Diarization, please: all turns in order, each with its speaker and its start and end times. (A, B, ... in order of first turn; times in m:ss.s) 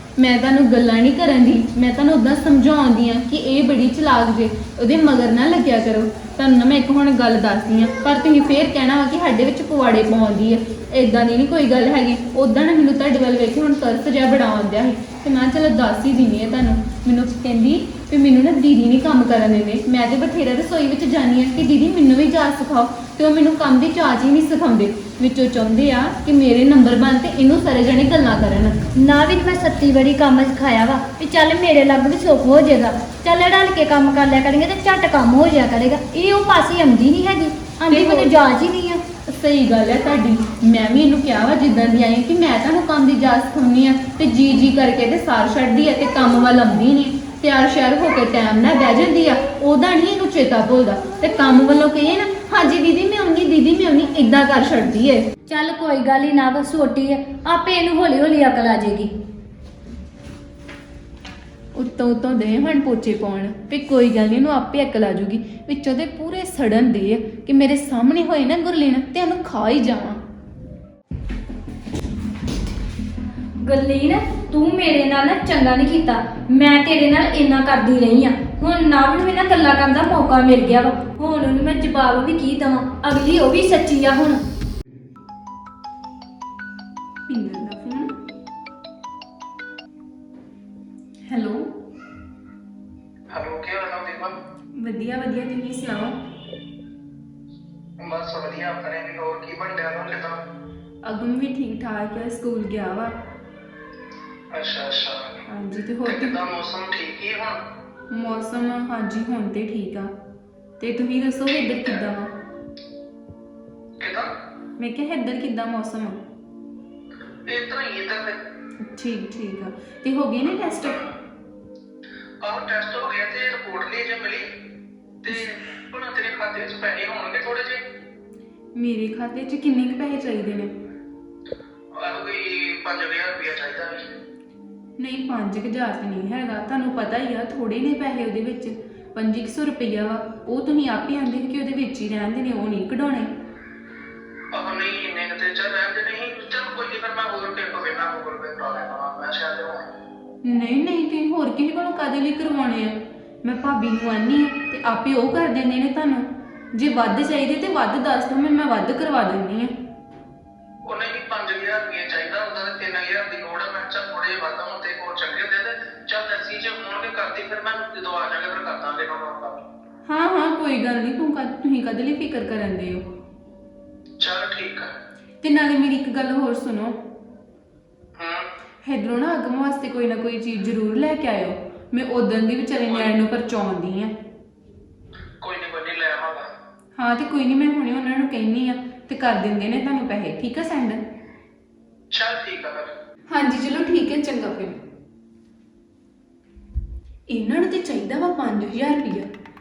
0:00.2-0:28.8 A
0:29.0-0:39.0 B
0:37.9-0:38.4 A
0:39.3-0:55.3 A
0:55.5-0:59.1 B
1:01.8-1:10.2 A
1:13.6-1:24.4 B
1:27.3-1:28.1 A
1:31.3-1:31.7 A
1:33.3-1:34.3 C
1:34.8-1:36.2 A
1:38.0-1:40.4 C
1:41.0-1:43.2 A
1:44.5-1:45.4 C
1:45.5-1:46.4 A
1:46.0-1:47.6 C
1:48.1-1:50.1 A
1:50.8-1:52.3 A
1:51.7-1:52.0 C
1:54.0-1:54.3 C
1:54.8-1:56.2 A
1:57.5-1:58.4 C
1:58.8-2:01.0 A
2:02.4-2:04.5 C
2:05.2-2:07.8 C
2:08.8-2:10.7 A
2:11.9-2:14.1 C
2:15.0-2:23.3 A
2:24.5-2:29.9 C
2:30.4-2:39.7 A
2:40.9-2:49.6 C
2:50.0-2:53.0 A
2:54.2-2:54.9 C
2:55.4-2:57.0 A
2:58.2-2:58.4 C
2:58.8-3:04.1 A
3:05.4-3:06.5 C
3:07.0-3:11.0 A
3:12.1-3:12.9 C
3:13.3-3:14.8 A
3:17.3-3:19.3 A